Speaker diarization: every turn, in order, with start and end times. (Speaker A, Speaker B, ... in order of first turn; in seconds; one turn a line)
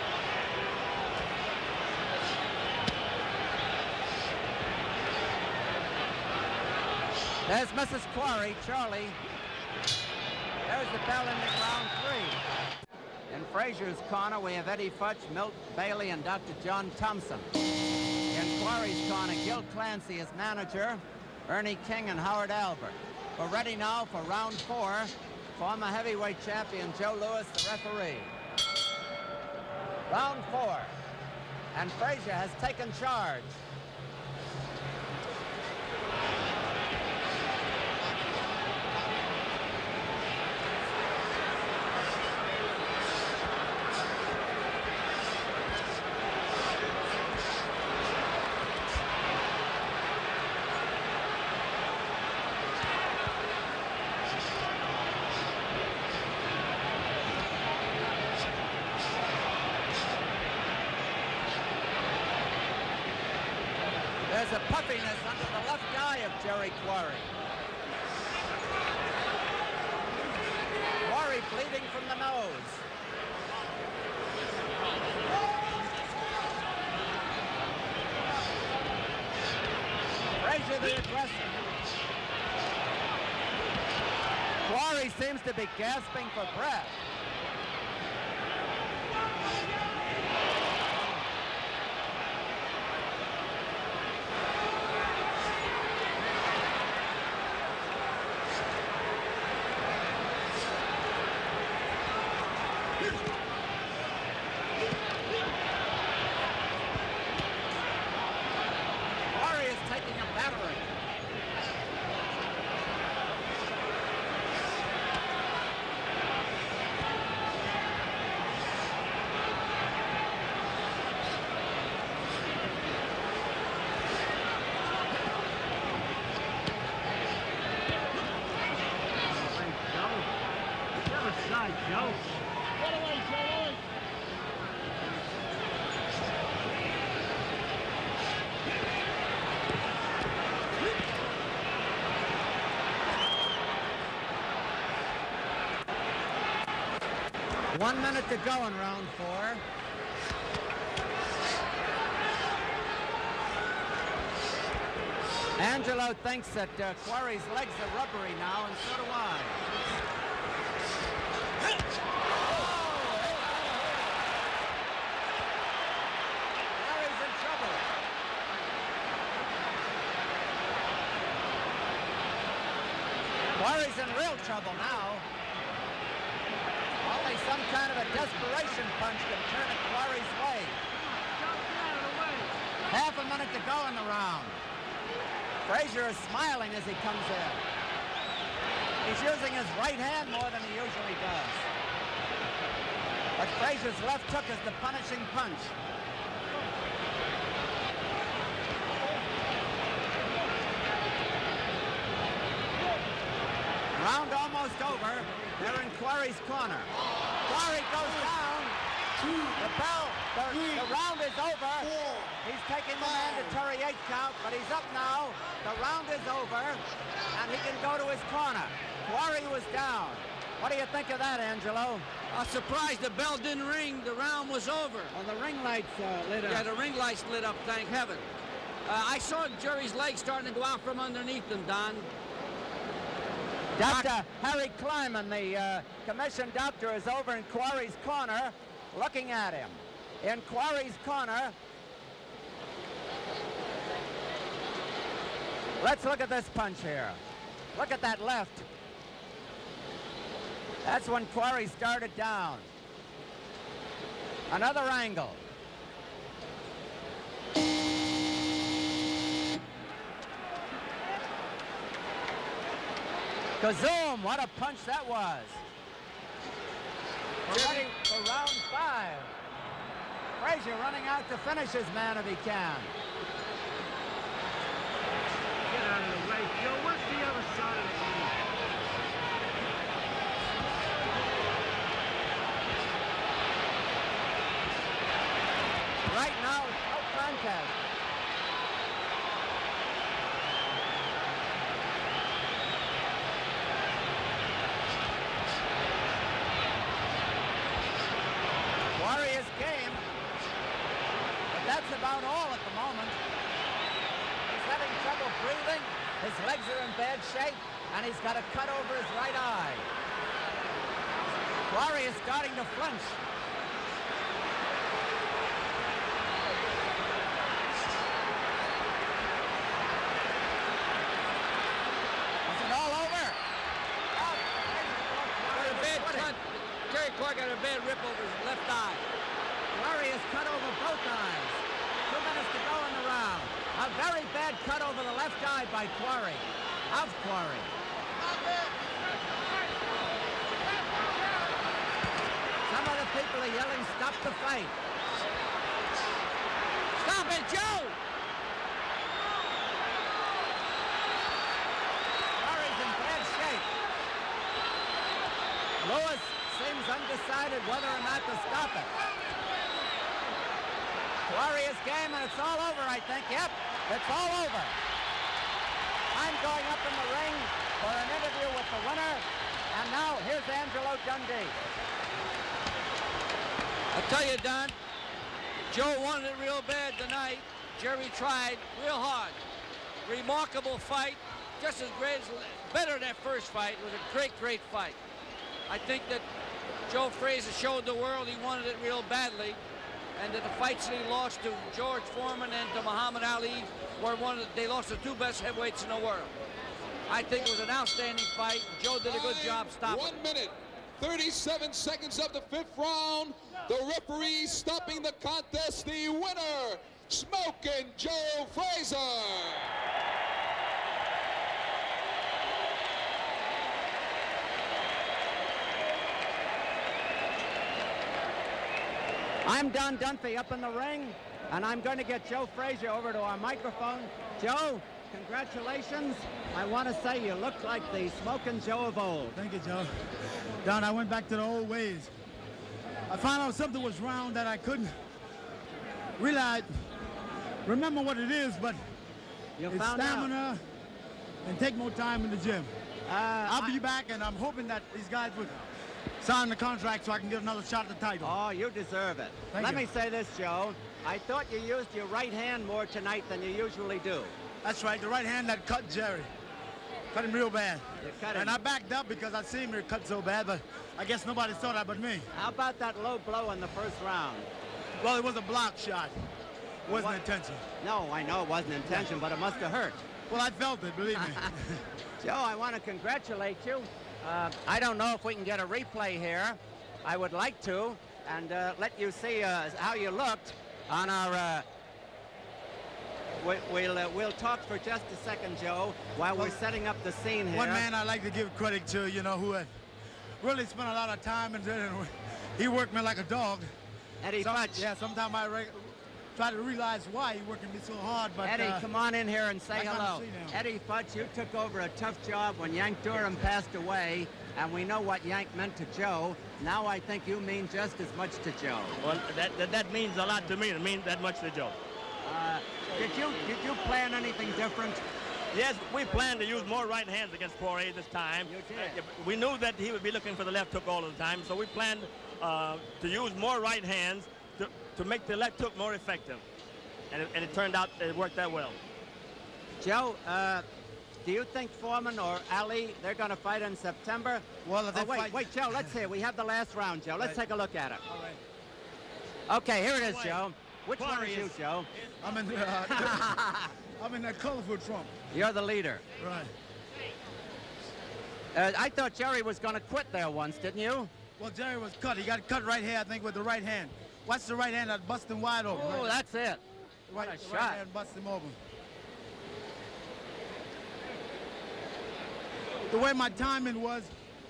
Speaker A: 7.5-9.2
Speaker A: 10.7-12.4
Speaker A: 13.3-17.5
Speaker A: 18.3-28.3
Speaker A: 30.1-30.9
Speaker A: 31.7-33.5
Speaker A: 64.2-67.3
Speaker A: 71.0-72.8
Speaker A: 80.4-81.6
Speaker A: 84.6-87.0
Speaker A: 109.3-110.9
Speaker B: 129.4-130.2
Speaker B: 131.1-132.2
Speaker A: 147.7-149.6
Speaker A: 155.6-159.6
Speaker A: 162.5-163.8
Speaker A: 166.7-167.8
Speaker A: 173.6-175.2
Speaker A: 177.0-180.8
Speaker B: 181.1-182.5
Speaker A: 182.9-184.6
Speaker A: 185.6-187.6
Speaker A: 189.0-191.7
Speaker A: 193.4-195.7
Speaker A: 203.9-206.9
Speaker A: 207.4-208.8
Speaker A: 209.6-216.8
Speaker A: 217.3-222.1
Speaker B: 222.3-225.1
Speaker A: 225.1-226.6
Speaker B: 226.4-228.2
Speaker B: 228.8-232.1
Speaker A: 233.7-241.6
Speaker B: 233.8-234.1
Speaker A: 245.8-247.2
Speaker A: 247.7-248.7
Speaker A: 250.8-252.7
Speaker A: 254.5-255.4
Speaker A: 263.6-265.6
Speaker B: 267.5-267.9
Speaker A: 267.5-269.3
Speaker A: 270.4-272.9
Speaker B: 275.7-278.3
Speaker A: 286.0-287.8
Speaker A: 298.9-300.0
Speaker A: 301.5-303.2
Speaker A: 304.5-309.9
Speaker A: 311.7-313.2
Speaker A: 322.4-323.4
Speaker A: 324.1-326.3
Speaker B: 325.5-329.0
Speaker A: 329.7-337.7
Speaker A: 342.6-344.8
Speaker B: 347.0-347.9
Speaker A: 352.4-353.7
Speaker A: 355.8-358.9
Speaker A: 361.3-364.8
Speaker A: 366.1-371.6
Speaker B: 373.9-374.7
Speaker B: 375.7-379.4
Speaker B: 380.0-385.0
Speaker B: 385.7-386.2
Speaker B: 386.9-389.6
Speaker B: 390.1-396.3
Speaker B: 397.1-400.2
Speaker C: 399.0-409.7
Speaker A: 419.4-429.4
Speaker D: 429.3-429.9
Speaker D: 430.6-432.1
Speaker D: 433.1-434.9
Speaker D: 436.2-436.7
Speaker D: 437.6-438.8
Speaker A: 439.6-440.3
Speaker D: 439.7-440.6
Speaker D: 441.4-442.7
Speaker A: 443.1-443.8
Speaker D: 443.4-445.7
Speaker D: 446.2-448.4
Speaker A: 448.2-454.3
Speaker D: 449.5-449.9
Speaker D: 454.6-456.3
Speaker D: 457.1-462.3
Speaker A: 458.0-458.6
Speaker A: 462.3-464.5
Speaker D: 465.0-466.1
Speaker D: 466.9-467.6
Speaker A: 466.9-467.2
Speaker A: 467.8-470.0
Speaker D: 470.3-471.8
Speaker A: 471.2-471.5
Speaker A: 472.2-481.6
Speaker A: 483.4-487.9
Speaker D: 487.5-489.7
Speaker D: 490.4-493.7
Speaker A: 494.2-494.9
Speaker D: 494.4-498.9
Speaker A: 498.4-509.0
Speaker D: 499.7-500.6
Speaker E: 509.0-511.8
Speaker A: 512.2-515.0
Speaker E: 515.5-526.4
Speaker A: 518.4-519.0
Speaker E: 527.1-528.8
Speaker A: 529.8-530.6
Speaker A: 531.2-538.0
Speaker D: 534.6-535.9
Speaker D: 538.1-538.4
Speaker A: 539.5-541.9
Speaker E: 540.0-541.5
Speaker D: 542.2-543.3
Speaker A: 542.9-543.7
Speaker D: 544.0-545.2
Speaker A: 545.3-546.0
Speaker D: 546.2-546.5
Speaker A: 548.5-551.1
Speaker D: 551.4-556.2
Speaker A: 555.7-557.8
Speaker D: 557.1-558.6
Speaker D: 562.9-564.1